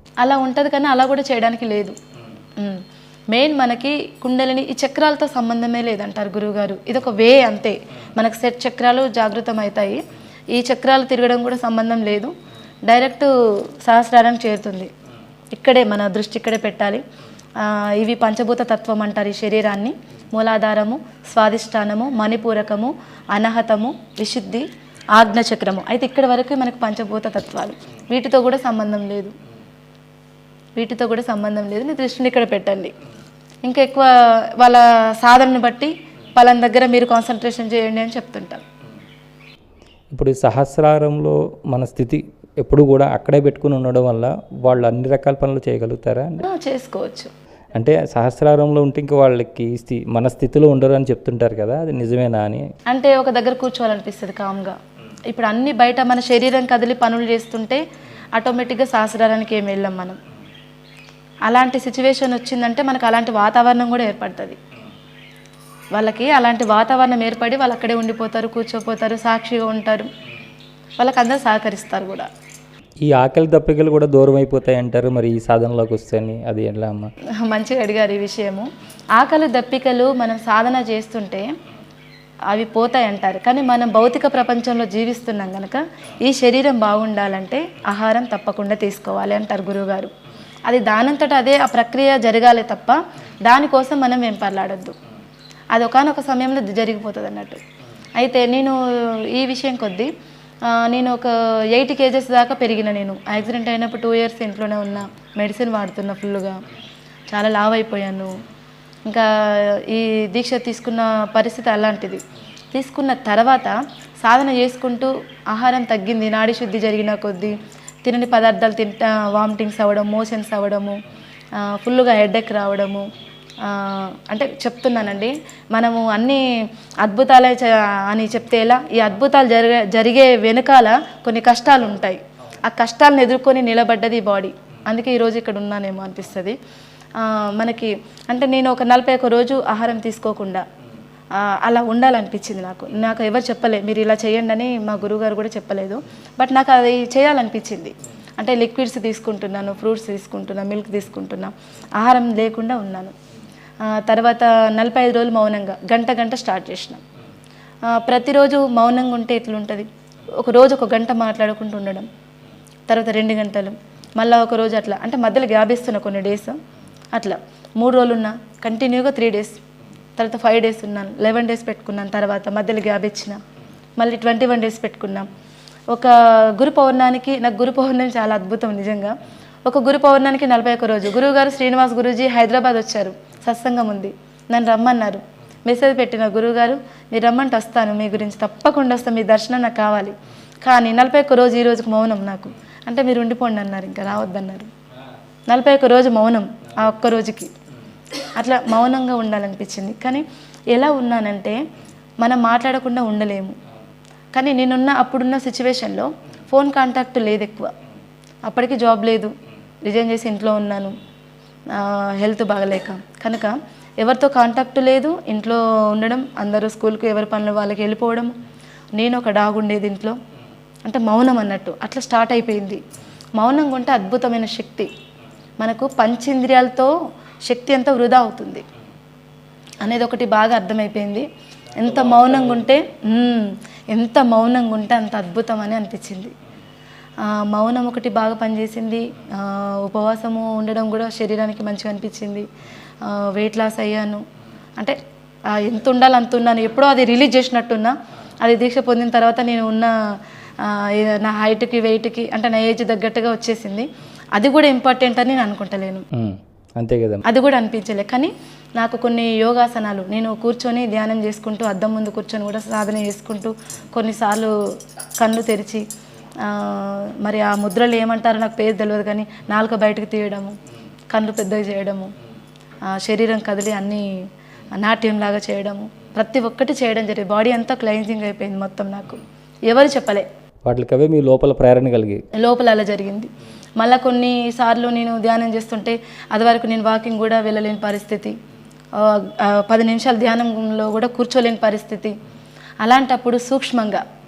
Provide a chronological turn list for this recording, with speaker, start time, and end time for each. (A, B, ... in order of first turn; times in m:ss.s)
0:00.2-0:02.0 A
0:02.6-0:12.3 A
0:12.9-0:14.9 A
0:15.5-0:17.0 A
0:17.6-0:29.3 A
0:30.8-0:32.9 A
0:33.6-0:38.6 A
0:40.1-0:46.4 B
0:46.4-0:47.3 A
0:47.8-0:52.6 B
0:52.9-0:54.8 A
0:55.3-0:57.8 A
0:58.4-1:00.2 A
1:01.5-1:04.6 A
1:05.9-1:10.1 A
1:11.0-1:12.3 A
1:13.0-1:17.1 B
1:17.4-1:21.5 A
1:22.5-1:30.1 A
1:30.7-1:35.0 A
1:35.7-1:37.6 A
1:38.2-1:38.8 A
1:39.3-1:40.1 A
1:40.7-1:46.6 A
1:47.3-1:48.3 A
1:49.1-1:52.2 A
1:52.7-2:01.0 A
2:01.6-2:03.0 A
2:03.6-2:06.4 A
2:07.0-2:16.6 A
2:17.2-2:20.6 A
2:21.3-2:33.1 A
2:33.9-2:37.0 A
2:37.9-2:39.9 A
2:40.4-2:42.1 A
2:42.9-2:46.6 A
2:47.2-2:49.6 A
2:50.2-2:53.4 A
2:54.0-2:55.3 A
2:55.9-3:14.7 A
3:15.5-3:17.5 A
3:18.2-3:21.6 A
3:22.2-3:23.5 A
3:24.3-3:27.7 A
3:28.5-3:29.3 A
3:29.8-3:30.9 A
3:31.7-3:38.3 A
3:38.9-3:40.2 A
3:40.9-3:42.8 A
3:43.4-3:44.9 A
3:45.6-3:46.9 A
3:47.5-3:48.6 A
3:49.8-3:56.3 A
3:51.8-3:52.6 B
3:57.2-4:02.4 A
4:03.0-4:04.2 A
4:05.5-4:09.9 A
4:10.6-4:16.0 A
4:16.1-4:17.2 B
4:17.2-4:24.5 A
4:25.2-4:25.8 A
4:26.4-4:30.6 A
4:31.1-4:32.1 A
4:32.9-4:34.1 A
4:34.7-4:40.3 A
4:40.6-4:42.2 B
4:42.4-4:48.4 A
4:49.0-4:52.2 A
4:52.8-4:54.0 A